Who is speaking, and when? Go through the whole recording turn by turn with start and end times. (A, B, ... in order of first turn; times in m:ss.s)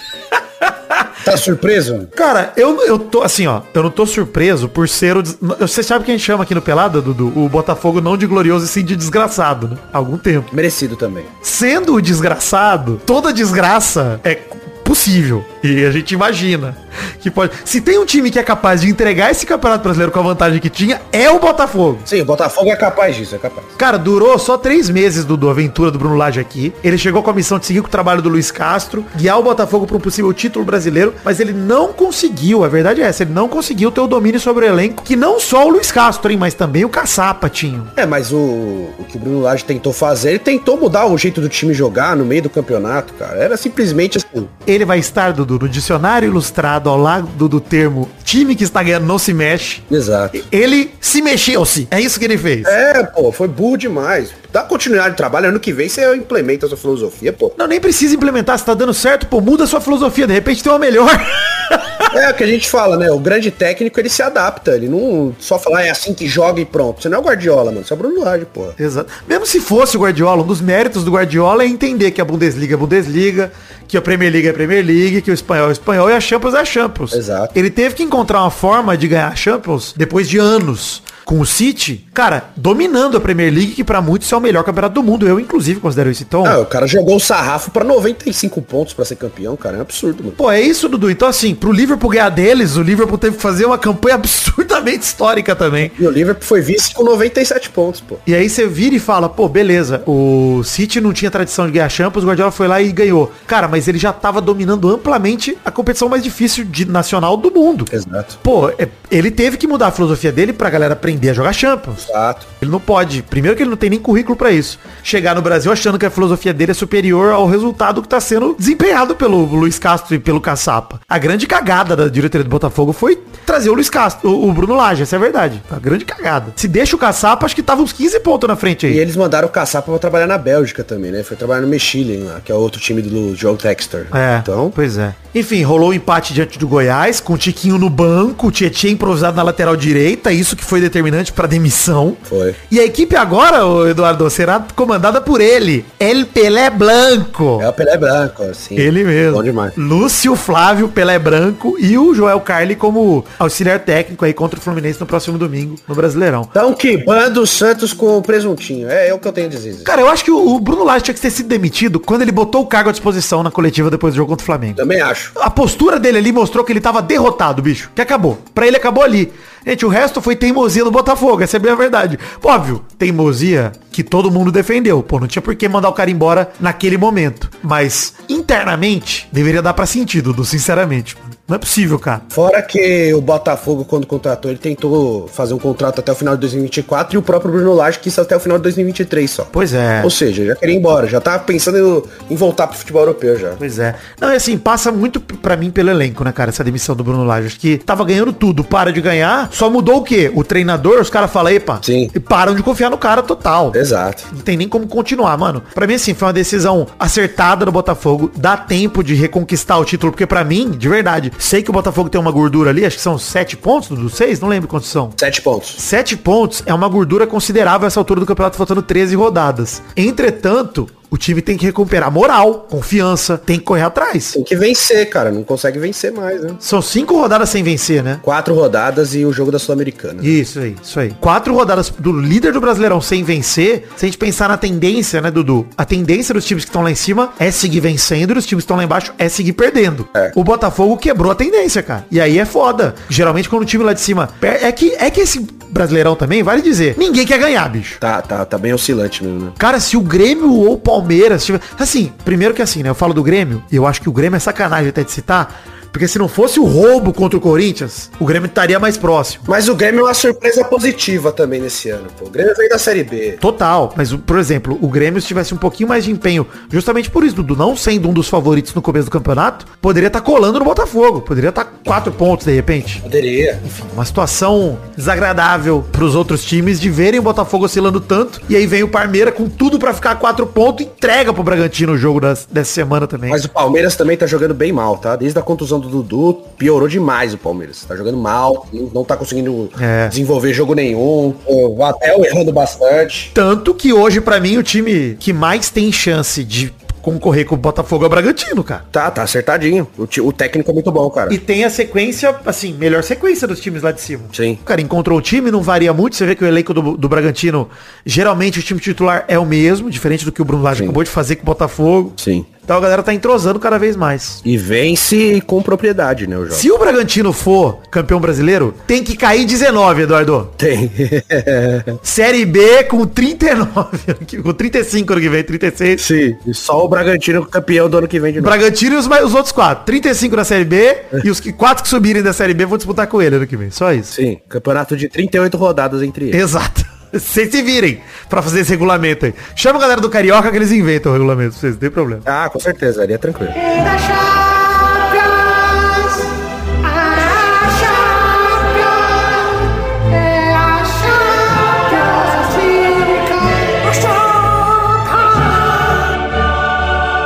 0:00.6-0:01.2 A
0:01.2-0:02.1 B
0:02.1-0:10.5 A
0:10.5-0:11.3 B
0:11.4-0:22.1 A
0:22.1-0:23.8 B
0:23.8-0:37.9 A
0:38.0-0:44.5 B
0:44.6-0:52.7 A
0:49.9-0:50.4 B
0:52.6-0:57.6 B
0:57.6-1:02.1 A
1:02.1-1:08.8 B
1:08.8-1:26.6 A
1:17.1-1:17.5 B
1:26.4-1:30.4 B
1:30.4-1:36.0 A
1:35.8-1:38.2 B
1:38.2-1:47.9 A
1:47.9-1:48.4 B
1:48.4-1:52.0 A
1:52.0-1:52.5 B
1:52.6-2:09.0 A
2:08.9-2:14.8 B
2:14.1-2:27.7 A
2:22.3-2:22.6 B
2:27.6-2:29.8 B
2:28.8-2:36.5 A
2:36.5-2:39.9 B
2:39.8-2:44.8 A
2:44.8-2:45.3 B
2:45.4-3:02.2 A
3:02.3-3:13.6 B
3:09.5-3:10.1 A
3:13.6-3:35.2 A
3:21.8-3:22.1 B
3:23.7-3:24.2 B
3:35.2-3:35.8 B
3:35.8-3:44.3 A
3:44.3-3:46.6 B
3:46.6-3:48.2 A
3:48.2-3:50.4 B
3:50.2-4:08.0 A
4:08.0-4:09.6 B
4:09.6-4:19.4 A
4:19.4-4:23.4 B
4:23.4-4:33.0 A
4:33.0-4:33.6 B
4:33.6-4:43.4 A
4:43.3-4:53.3 B
4:49.8-4:50.1 A
4:53.3-4:58.8 A
4:58.9-5:01.4 B
5:01.3-5:14.4 A
5:04.3-5:04.6 B
5:12.2-5:12.5 B
5:14.4-5:16.7 B
5:16.5-5:20.5 A
5:20.6-5:22.0 B
5:22.0-5:26.0 A
5:26.0-5:28.6 B
5:28.4-5:34.1 A
5:34.1-5:36.4 B
5:36.3-5:42.2 A
5:42.2-5:43.6 B
5:43.6-5:46.3 C
5:46.8-5:56.0 C